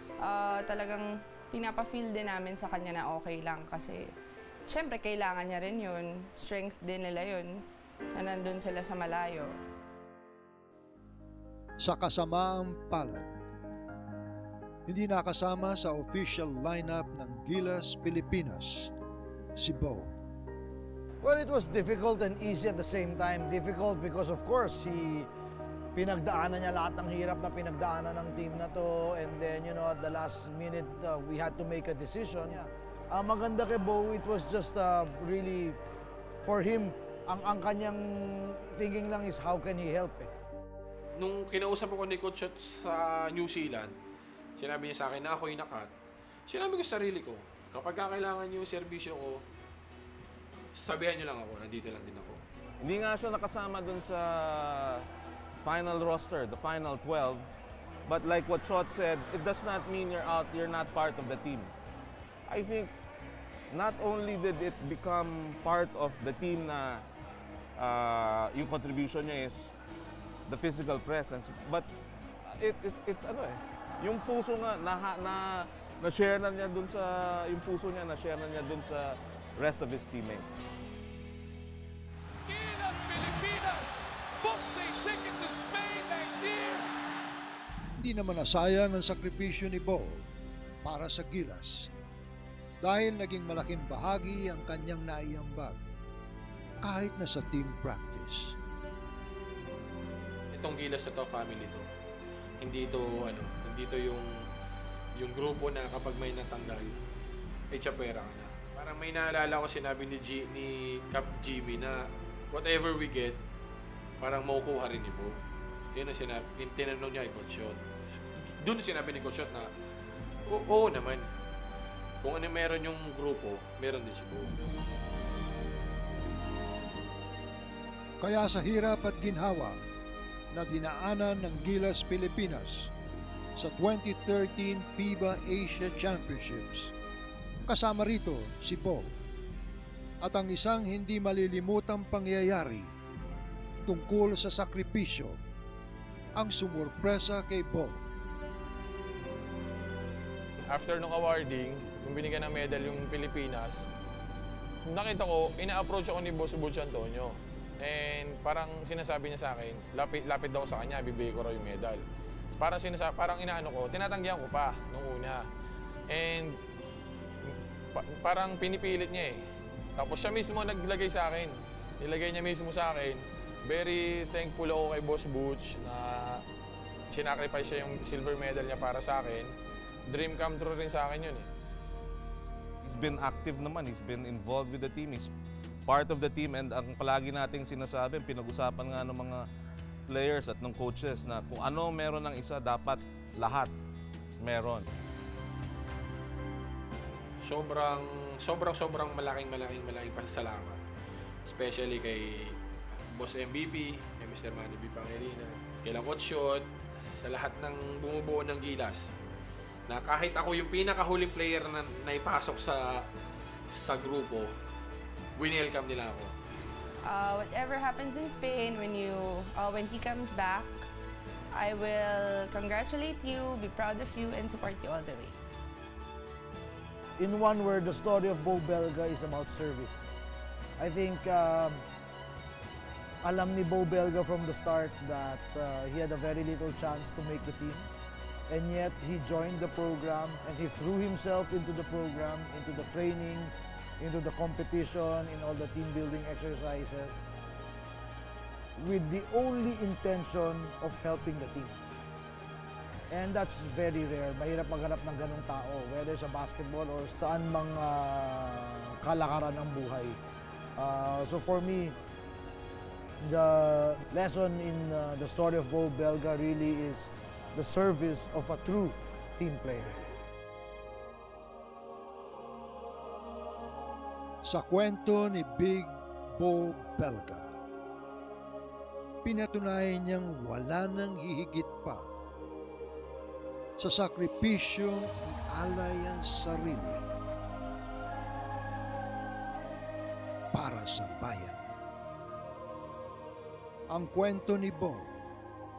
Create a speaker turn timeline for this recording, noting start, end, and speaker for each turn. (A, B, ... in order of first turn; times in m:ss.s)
0:00.2-0:04.1 A
0:04.7-0:07.6 A
0:08.1-0:09.6 A
0:11.8-0:13.3 B
0:14.9-0:18.9 B
0:19.6-0:20.1 B
0:21.2-0:25.3 C
0:26.0-0:35.8 C
0:36.4-0:40.3 C
0:41.2-0:43.9 D
0:44.6-0:45.9 D
0:46.5-0:49.4 D
0:50.8-0:52.4 D
0:52.8-0:55.1 E
0:55.6-0:57.5 E
0:58.1-1:01.7 E
1:02.5-1:02.9 E
1:03.7-1:07.0 E
1:07.8-1:09.7 E
1:10.5-1:11.9 E
1:12.5-1:20.5 E
1:22.5-1:26.9 F
1:28.0-1:30.2 B
1:30.8-1:31.9 B
1:32.8-1:35.8 B
1:36.8-1:38.6 B
1:40.5-1:41.8 D
1:42.6-1:44.3 D
1:45.2-1:47.0 D
1:47.7-1:53.4 D
1:54.2-1:55.4 D
1:55.9-1:59.7 D
2:00.5-2:01.3 D
2:02.2-2:04.5 D
2:08.2-2:09.8 B
2:10.5-2:12.9 B
2:13.6-2:16.9 B
2:17.7-2:19.2 B
2:20.2-2:22.9 B
2:23.9-2:25.4 B
2:26.4-2:28.0 B
2:30.7-2:33.9 D
2:34.9-2:45.5 D
2:46.1-2:46.6 D
2:47.4-2:49.4 D
2:50.0-2:56.4 D
2:57.1-2:59.5 D
3:00.1-3:01.5 D
3:02.8-3:05.3 E
3:05.9-3:09.4 E
3:10.1-3:13.7 E
3:14.4-3:14.8 E
3:17.4-3:20.8 D
3:21.5-3:22.6 D
3:23.1-3:26.7 D
3:27.2-3:29.1 D
3:29.9-3:33.0 D
3:33.7-3:34.5 D
3:35.4-3:36.3 D
3:37.1-3:40.8 A
3:41.5-3:45.4 A
3:47.2-3:50.1 C
3:50.8-3:51.8 C
3:53.2-3:57.9 C
3:58.5-4:07.2 C
4:08.8-4:11.8 C
4:13.1-4:20.2 C
4:20.8-4:22.0 C
4:23.2-4:30.0 C
4:34.4-4:37.5 B
4:39.2-4:42.1 B
4:43.8-4:47.1 B
4:50.5-4:51.7 B
4:53.9-4:55.2 B